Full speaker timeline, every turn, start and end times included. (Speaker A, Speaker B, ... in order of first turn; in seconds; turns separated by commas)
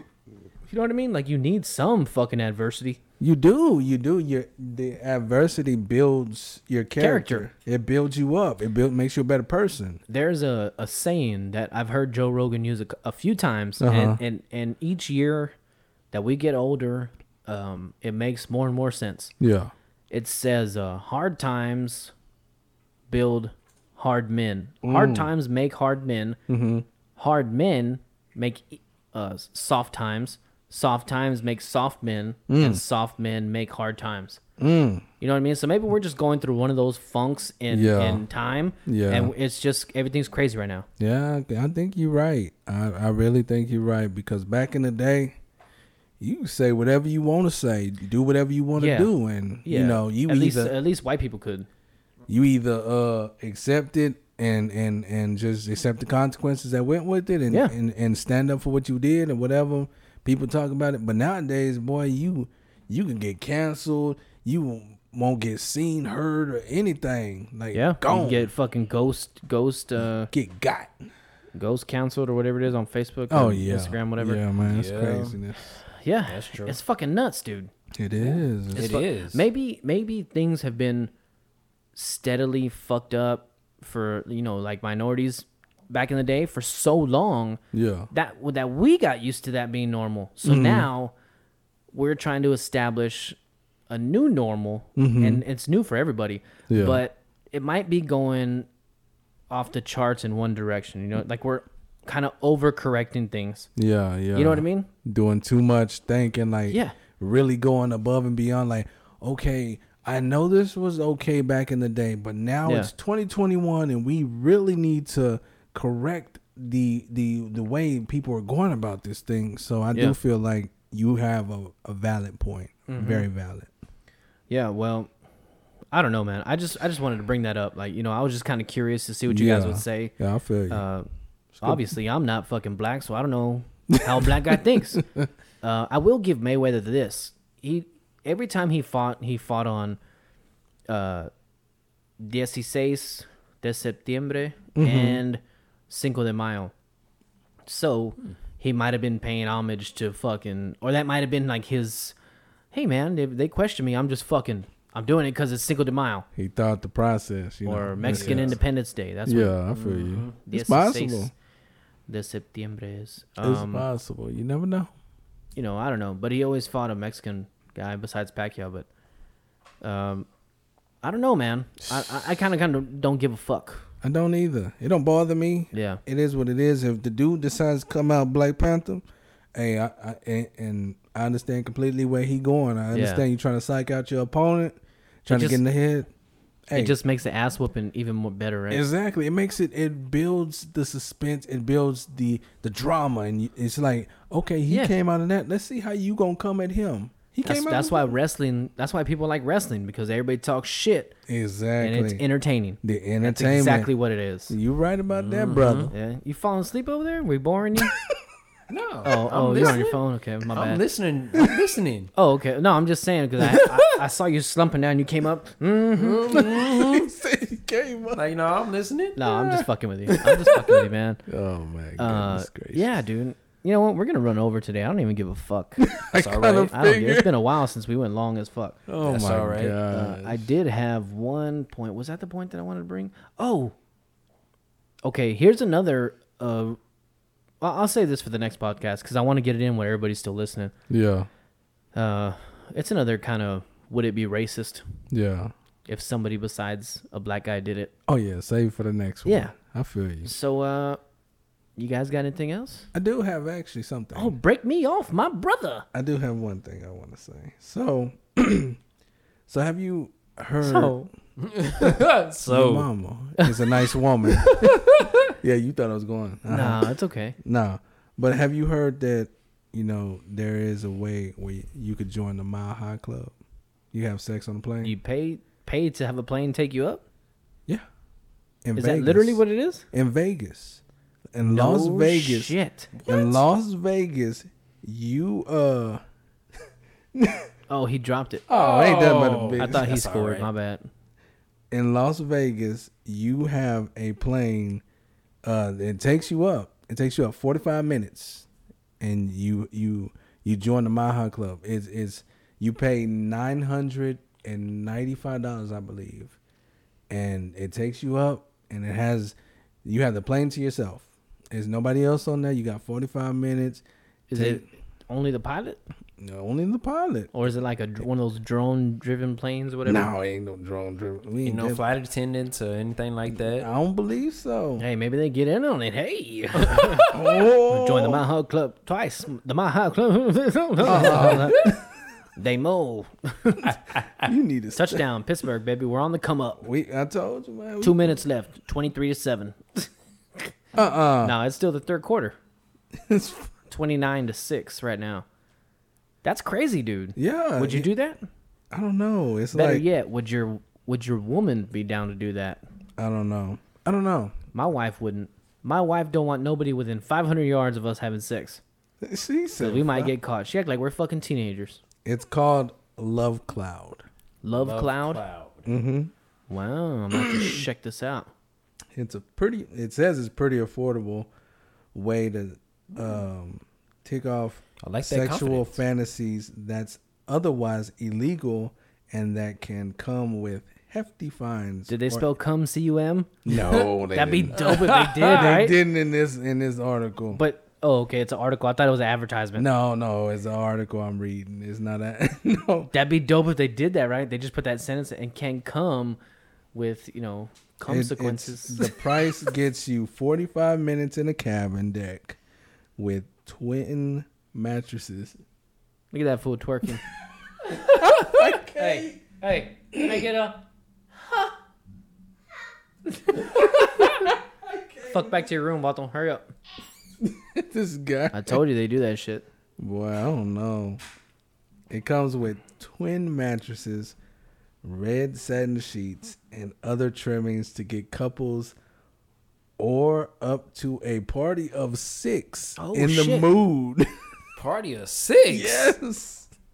Speaker A: 0.7-3.0, Speaker B: 3.2-10.0, Speaker A: 7.0-7.5, Speaker A: 10.1-15.5, Speaker B: 13.8-14.2, Speaker A: 16.1-19.3, Speaker B: 19.4-19.7, Speaker A: 20.1-22.1, Speaker A: 23.1-26.4, Speaker B: 24.8-25.3, Speaker B: 26.5-26.8, Speaker A: 27.2-34.4, Speaker B: 32.5-32.8, Speaker B: 34.6-35.0, Speaker A: 35.2-40.9, Speaker B: 37.7-38.2, Speaker B: 38.9-39.3, Speaker B: 41.0-45.4, Speaker B: 46.2-50.7, Speaker A: 48.8-49.1, Speaker A: 49.6-51.7, Speaker B: 52.3-68.5, Speaker A: 67.7-70.3, Speaker B: 70.3-71.0, Speaker A: 71.5-74.4, Speaker B: 73.3-75.8, Speaker C: 74.6-75.4, Speaker A: 75.9-77.7, Speaker C: 76.3-76.8, Speaker B: 77.9-78.9, Speaker C: 78.7-79.4, Speaker A: 78.7-81.1, Speaker A: 81.9-91.1, Speaker B: 87.7-88.1, Speaker B: 90.4-90.9, Speaker A: 91.9-93.4, Speaker A: 93.9-98.7, Speaker B: 95.0-95.4, Speaker B: 96.7-97.0, Speaker A: 99.5-103.7, Speaker B: 103.8-123.7, Speaker A: 104.3-104.9, Speaker A: 106.7-107.0, Speaker A: 112.7-112.9, Speaker A: 122.9-123.3, Speaker A: 124.5-125.1, Speaker A: 125.9-130.1, Speaker B: 129.3-130.8, Speaker A: 130.7-131.1, Speaker B: 131.5-131.9, Speaker A: 131.6-135.0, Speaker B: 133.9-135.3, Speaker A: 135.6-140.0, Speaker A: 140.9-141.3, Speaker A: 142.2-146.7, Speaker B: 144.7-145.2, Speaker A: 147.7-152.1, Speaker A: 152.7-156.3, Speaker B: 156.3-158.6, Speaker A: 157.7-159.6, Speaker C: 158.1-158.6, Speaker B: 159.2-161.3, Speaker C: 159.7-160.3, Speaker A: 160.4-161.3, Speaker A: 162.1-163.9, Speaker B: 163.4-164.9, Speaker A: 165.5-168.9, Speaker A: 169.8-170.3, Speaker A: 171.0-173.8, Speaker B: 174.0-186.1, Speaker A: 175.7-176.0, Speaker A: 182.9-183.2, Speaker A: 185.3-185.6, Speaker B: 186.7-186.9, Speaker A: 186.7-188.8, Speaker B: 188.7-198.1, Speaker A: 194.7-194.9, Speaker A: 197.4-201.1, Speaker B: 201.3-202.2, Speaker A: 201.8-204.5, Speaker B: 202.8-203.9, Speaker B: 204.5-205.9, Speaker C: 205.1-205.9, Speaker A: 205.9-207.9, Speaker C: 208.7-210.0, Speaker A: 209.0-210.8, Speaker C: 210.5-212.1, Speaker A: 212.1-216.4, Speaker C: 216.0-217.1, Speaker B: 216.3-218.2, Speaker C: 218.1-219.2, Speaker A: 219.2-221.2, Speaker B: 219.2-222.9, Speaker A: 222.0-225.9, Speaker B: 225.8-227.3, Speaker C: 226.1-226.7, Speaker A: 226.7-228.8, Speaker B: 228.9-230.5, Speaker C: 229.0-229.8, Speaker A: 229.8-233.7, Speaker A: 235.0-236.8, Speaker A: 237.6-240.7, Speaker B: 240.9-241.3, Speaker A: 241.9-244.8, Speaker B: 245.1-245.5, Speaker A: 245.9-247.9, Speaker B: 248.1-250.3, Speaker A: 249.2-249.5, Speaker A: 250.2-251.0, Speaker A: 251.8-252.9, Speaker B: 252.9-254.3, Speaker A: 254.1-255.8, Speaker B: 255.9-258.8, Speaker B: 259.5-261.0, Speaker A: 260.6-261.1, Speaker C: 261.4-262.9, Speaker B: 262.4-264.7, Speaker A: 263.4-263.6, Speaker A: 264.3-264.8, Speaker B: 265.4-273.3, Speaker A: 266.5-267.4, Speaker B: 273.9-274.9, Speaker A: 274.8-277.0, Speaker B: 278.6-280.8, Speaker A: 278.8-279.8, Speaker B: 281.3-286.0, Speaker A: 281.4-283.4, Speaker B: 287.1-287.5, Speaker A: 287.7-288.4, Speaker B: 288.5-289.9, Speaker C: 288.5-290.5, Speaker A: 289.6-290.9, Speaker B: 291.7-294.8, Speaker B: 295.4-298.4, Speaker B: 299.0-306.4, Speaker B: 307.1-313.8, Speaker A: 314.3-315.8, Speaker B: 314.3-314.6, Speaker B: 316.2-317.5, Speaker A: 317.3-320.1, Speaker B: 319.9-321.8, Speaker C: 321.4-323.7, Speaker B: 323.5-324.8, Speaker A: 324.8-331.7, Speaker B: 327.1-328.2, Speaker B: 330.8-331.7, Speaker A: 332.4-333.8, Speaker B: 334.2-335.0, Speaker A: 334.7-336.6, Speaker B: 336.6-338.2, Speaker A: 337.8-340.5, Speaker B: 340.7-341.4, Speaker A: 341.2-342.4, Speaker B: 342.9-343.5, Speaker A: 343.7-345.2, Speaker A: 346.2-348.2, Speaker B: 347.1-347.9, Speaker B: 348.7-349.8, Speaker A: 349.5-352.6, Speaker B: 353.0-354.3, Speaker A: 354.5-358.6, Speaker B: 359.0-360.1, Speaker A: 359.6-361.8, Speaker B: 362.0-364.0, Speaker A: 364.4-365.2, Speaker C: 364.6-365.7, Speaker B: 365.6-366.1, Speaker A: 366.5-368.3, Speaker B: 367.1-367.6, Speaker B: 368.9-371.3, Speaker B: 371.9-382.3, Speaker C: 374.8-375.8, Speaker A: 381.9-383.3, Speaker B: 383.4-387.4, Speaker A: 384.1-385.8, Speaker C: 384.6-385.3, Speaker A: 387.3-389.7, Speaker B: 389.6-392.9, Speaker A: 392.9-396.2, Speaker A: 396.7-398.9, Speaker B: 397.9-402.4, Speaker B: 403.0-405.4, Speaker A: 406.1-407.0, Speaker A: 407.7-410.6, Speaker B: 407.9-409.2, Speaker B: 409.9-410.2, Speaker A: 413.3-414.3, Speaker B: 414.1-415.4, Speaker A: 415.1-416.4, Speaker B: 417.2-418.6, Speaker A: 418.3-419.5, Speaker B: 419.8-421.0, Speaker B: 421.9-424.1, Speaker B: 424.8-428.7, Speaker B: 429.8-434.1, Speaker A: 432.8-433.5, Speaker C: 434.6-435.9, Speaker B: 435.5-436.5